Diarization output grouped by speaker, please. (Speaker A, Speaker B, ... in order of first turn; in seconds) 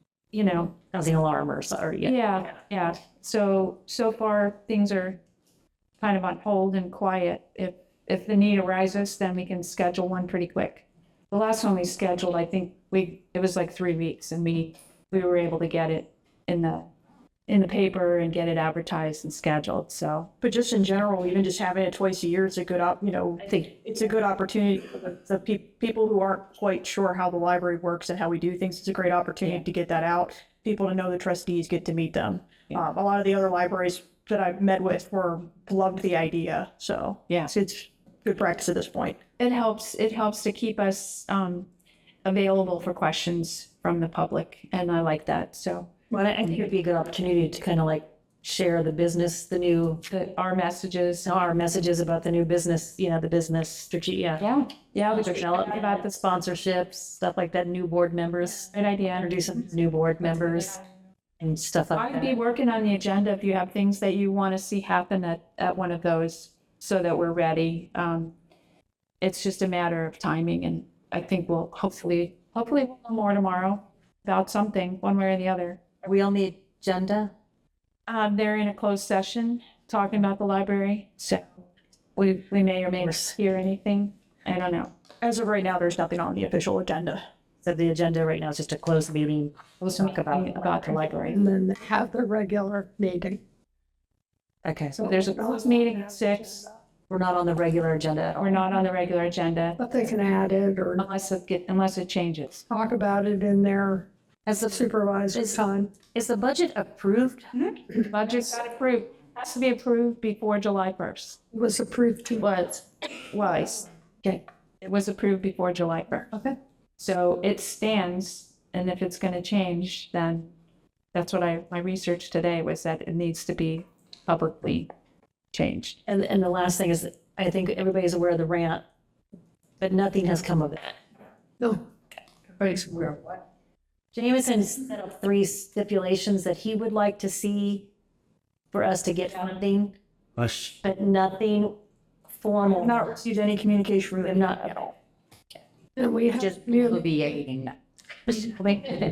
Speaker A: 0.3-0.7, 2.0-5.2, 6.0-16.9, 17.5-20.3, 39.4-41.7, 42.2-45.9, 50.1-51.3, 54.4-56.2, 58.7-59.4, 62.0-68.3, 69.2-75.8, 78.1-81.5, 82.2-84.9, 90.0-91.4, 95.0-96.7, 98.4-99.8, 101.0-102.7, 108.0-111.4, 112.4-113.8, 114.8-116.3, 117.0-120.5, 121.1-124.9, 125.5-126.0
Speaker B: 0.7-2.3, 46.1-50.0, 51.2-54.4, 55.1-60.8, 61.4-62.3, 76.0-77.3, 83.0-83.3, 87.6-91.0, 94.7-95.0, 97.1-98.4, 104.5-104.8, 105.3-107.5, 126.1-128.8, 129.8-130.9, 134.1-137.9, 138.7-141.7, 142.3-142.9, 144.3-144.6, 146.4-147.7
Speaker C: 20.4-39.2, 85.2-87.2, 142.8-144.9
Speaker D: 91.3-93.4, 95.0-95.8, 99.8-101.0, 102.7-104.1, 104.7-106.0, 111.5-112.4, 131.6-131.8, 146.0-147.1